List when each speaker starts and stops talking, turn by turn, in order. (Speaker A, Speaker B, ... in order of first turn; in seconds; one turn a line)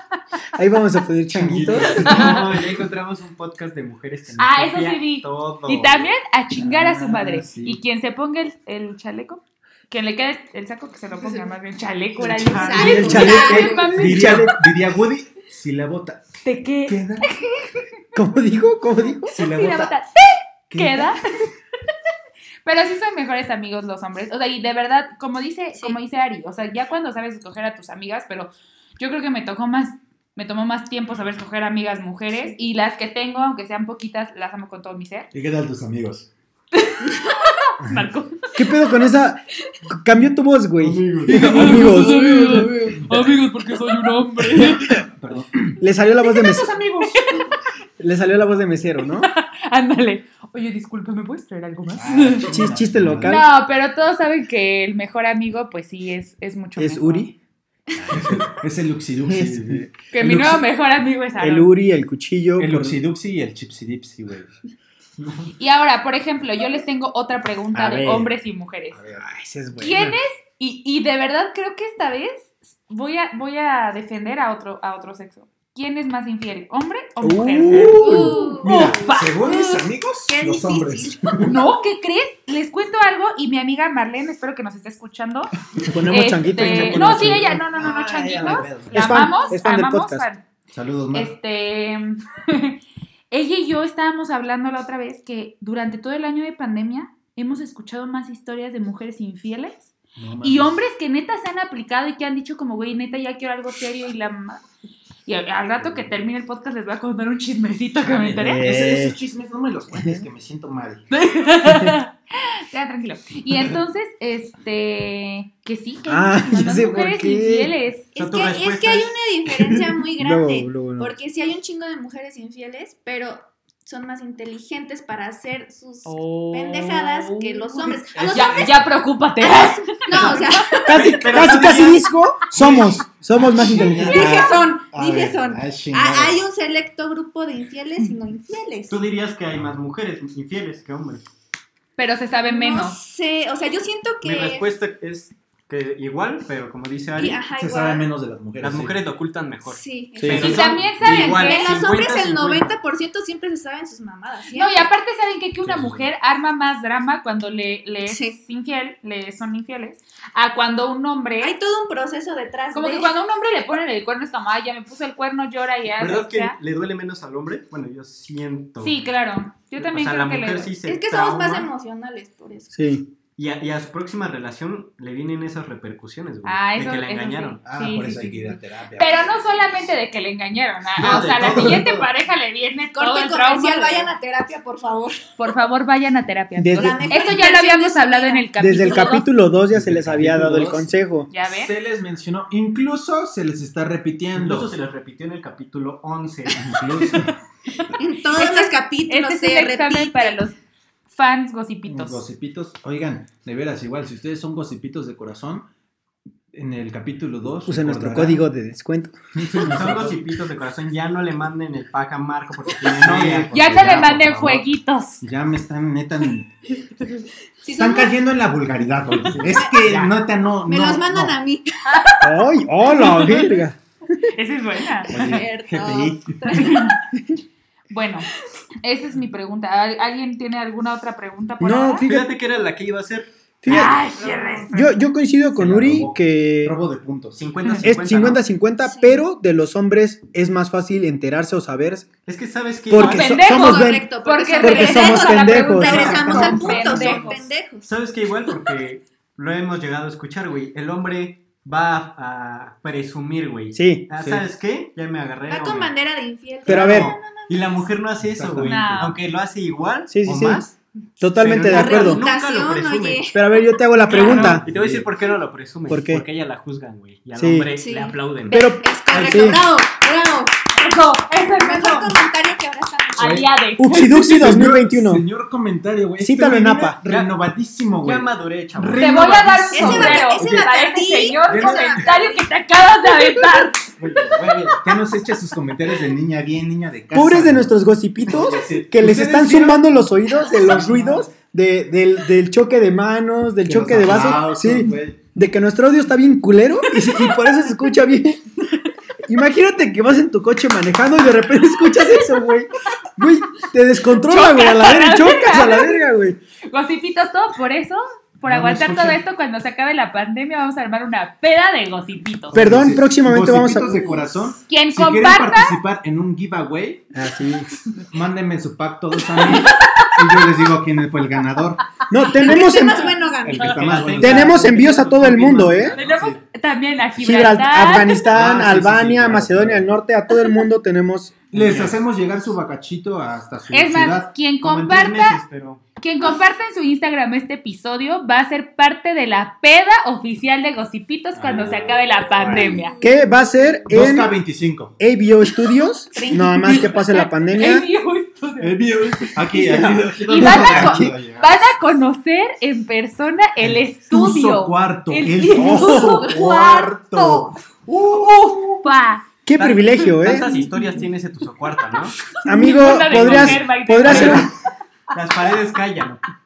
Speaker A: 0.6-2.3
Speaker B: 1.4-2.5
Speaker C: 1.4-6.1
Speaker D: 2.0-2.4
Speaker D: 4.4-14.6
Speaker B: 6.6-7.8
Speaker C: 12.2-13.5
Speaker B: 12.5-17.3
Speaker E: 12.5-13.9
Speaker A: 12.8-14.6
Speaker D: 16.4-17.9
Speaker A: 18.1-19.4
Speaker B: 19.3-19.9
Speaker D: 19.3-21.3
Speaker B: 20.7-21.1
Speaker D: 22.6-35.3
Speaker B: 35.3-36.3
Speaker D: 36.8-38.5
Speaker A: 38.5-42.9
Speaker B: 40.8-43.4
Speaker C: 41.2-41.9
Speaker D: 41.3-45.0
Speaker B: 44.6-45.8
Speaker A: 45.8-46.8
Speaker B: 46.5-47.4
Speaker D: 47.1-47.5
Speaker A: 48.0-49.3
Speaker D: 49.2-52.5
Speaker B: 51.9-53.5
Speaker A: 52.4-53.5
Speaker D: 53.3-57.3
Speaker A: 56.8-57.3
Speaker B: 58.0-60.6
Speaker A: 59.3-59.8
Speaker D: 60.1-61.7
Speaker A: 61.4-63.0
Speaker B: 62.6-64.5
Speaker C: 65.2-65.5
Speaker D: 65.6-69.0
Speaker B: 68.9-69.2
Speaker A: 69.2-70.2
Speaker D: 69.8-79.5
Speaker A: 77.2-78.8
Speaker B: 77.9-81.5
Speaker E: 78.0-81.6
Speaker D: 81.4-85.5
Speaker B: 85.8-89.3
Speaker A: 85.9-87.7
Speaker D: 86.1-90.4
Speaker A: 88.8-90.3
Speaker B: 90.7-91.3
Speaker D: 91.1-92.8
Speaker D: 93.3-104.6
Speaker B: 100.2-100.8
Speaker D: 105.3-108.7
Speaker B: 108.0-111.0
Speaker A: 108.4-109.2
Speaker A: 110.0-110.2
Speaker D: 111.1-118.1
Speaker A: 111.7-112.0
Speaker A: 116.1-117.7
Speaker C: 118.2-119.2
Speaker E: 118.2-128.7
Speaker A: 120.2-121.1
Speaker D: 126.0-130.8
Speaker B: 128.1-129.0
Speaker E: 129.4-131.2
Speaker A: 130.9-134.6
Speaker C: 130.9-134.0
Speaker B: 133.4-136.4
Speaker E: 133.9-139.0
Speaker C: 138.9-141.2
Speaker D: 142.0-143.0
Speaker E: 142.4-144.7
Speaker C: 144.2-147.4
Speaker E: 147.2-148.1
Speaker B: 147.6-149.0
Speaker C: 148.6-152.7
Speaker E: 149.7-154.9
Speaker A: 150.2-150.5
Speaker D: 150.4-151.7
Speaker B: 150.4-151.0
Speaker D: 154.5-161.6
Speaker B: 155.6-156.1
Speaker E: 158.1-158.4
Speaker E: 161.4-163.1
Speaker D: 162.7-166.6
Speaker C: 165.9-169.0
Speaker D: 168.8-170.7
Speaker C: 169.8-171.7
Speaker E: 170.9-172.8
Speaker A: 172.7-173.1
Speaker C: 173.4-177.6
Speaker D: 176.4-184.1
Speaker B: 177.6-179.7
Speaker B: 181.0-182.0
Speaker C: 181.0-182.1
Speaker E: 182.9-185.3
Speaker D: 185.4-189.3
Speaker A: 186.6-187.3
Speaker E: 186.7-189.1
Speaker A: 188.6-191.3
Speaker B: 189.7-194.7
Speaker D: 191.3-191.8
Speaker C: 194.3-197.2
Speaker B: 196.6-197.3
Speaker D: 197.7-200.6
Speaker E: 198.0-200.4
Speaker D: 201.1-202.2
Speaker B: 201.8-205.7
Speaker B: 206.5-208.4
Speaker A: 207.7-209.2
Speaker B: 209.3-210.2
Speaker C: 209.5-214.2
Speaker B: 212.8-214.7
Speaker D: 213.5-215.2
Speaker B: 215.2-216.5
Speaker E: 217.6-218.2
Speaker B: 217.8-221.4
Speaker C: 219.3-220.1
Speaker E: 219.5-220.1
Speaker E: 220.7-222.3
Speaker D: 221.9-222.2
Speaker A: 222.2-223.8
Speaker D: 222.8-223.6
Speaker E: 223.1-223.3
Speaker D: 224.3-225.4
Speaker B: 225.1-226.6
Speaker E: 225.1-227.0
Speaker D: 226.5-227.0
Speaker D: 227.9-228.3
Speaker D: 228.8-232.1
Speaker A: 231.6-232.3
Speaker C: 232.1-233.3
Speaker A: 233.6-234.0
Speaker D: 233.7-235.0
Speaker E: 234.1-234.8
Speaker A: 234.7-236.8
Speaker B: 235.5-237.5
Speaker C: 237.4-238.4
Speaker A: 237.8-242.1
Speaker E: 238.8-239.2
Speaker C: 242.3-243.3
Speaker A: 242.9-246.4
Speaker D: 242.9-247.5
Speaker E: 243.3-247.9
Speaker B: 245.9-247.2
Speaker C: 246.2-255.9
Speaker A: 253.7-254.2
Speaker E: 255.5-257.9
Speaker C: 256.6-260.7
Speaker A: 256.7-257.2
Speaker B: 258.2-259.1
Speaker D: 258.6-259.2
Speaker A: 260.1-260.6
Speaker A: 261.2-262.3
Speaker C: 261.4-263.3
Speaker E: 261.6-263.8
Speaker A: 263.3-264.6
Speaker D: 264.1-264.6
Speaker B: 264.1-265.1
Speaker C: 264.1-269.6
Speaker A: 265.9-266.2
Speaker A: 267.4-267.7
Speaker E: 267.8-270.7
Speaker A: 268.5-269.6
Speaker D: 270.8-272.2
Speaker E: 271.4-273.4
Speaker D: 273.1-274.5
Speaker B: 273.2-273.5
Speaker A: 273.8-275.2
Speaker B: 274.0-280.6
Speaker A: 276.2-277.0
Speaker C: 277.1-277.4
Speaker C: 278.0-279.2
Speaker D: 278.9-283.9
Speaker E: 279.7-282.5
Speaker B: 281.5-282.1
Speaker E: 283.2-283.7
Speaker C: 284.0-284.9
Speaker B: 284.8-290.0
Speaker A: 287.1-298.6
Speaker C: 290.6-291.0
Speaker B: 290.6-291.2
Speaker B: 293.6-295.2
Speaker A: 299.2-306.4
Speaker D: 304.2-306.0
Speaker D: 306.7-312.6
Speaker B: 308.5-309.2
Speaker B: 312.5-317.1
Speaker A: 312.5-314.2
Speaker D: 314.7-315.8
Speaker A: 317.1-317.7
Speaker B: 318.0-322.0
Speaker D: 319.4-320.4
Speaker A: 322.1-323.2
Speaker E: 322.3-324.2
Speaker B: 323.4-324.8
Speaker C: 323.6-326.1
Speaker A: 324.2-325.9
Speaker B: 325.7-326.4
Speaker D: 325.9-328.2
Speaker A: 327.2-331.4
Speaker B: 328.3-329.9
Speaker B: 331.5-334.3
Speaker C: 331.5-332.0
Speaker D: 333.7-335.4
Speaker C: 334.6-335.8
Speaker D: 336.0-343.0
Speaker B: 341.4-342.7
Speaker E: 342.4-343.9
Speaker A: 343.0-344.4
Speaker B: 343.9-345.0
Speaker A: 345.0-347.9
Speaker E: 346.2-346.9
Speaker D: 346.2-349.6
Speaker B: 348.6-351.7
Speaker A: 349.6-351.1
Speaker D: 350.2-356.4
Speaker E: 350.3-350.7
Speaker B: 353.6-358.8
Speaker E: 355.4-357.5
Speaker A: 355.6-356.0
Speaker D: 358.2-359.2
Speaker A: 359.5-360.6
Speaker C: 359.6-362.2
Speaker D: 362.4-364.5
Speaker A: 362.4-364.5
Speaker C: 363.1-364.5
Speaker C: 365.1-366.2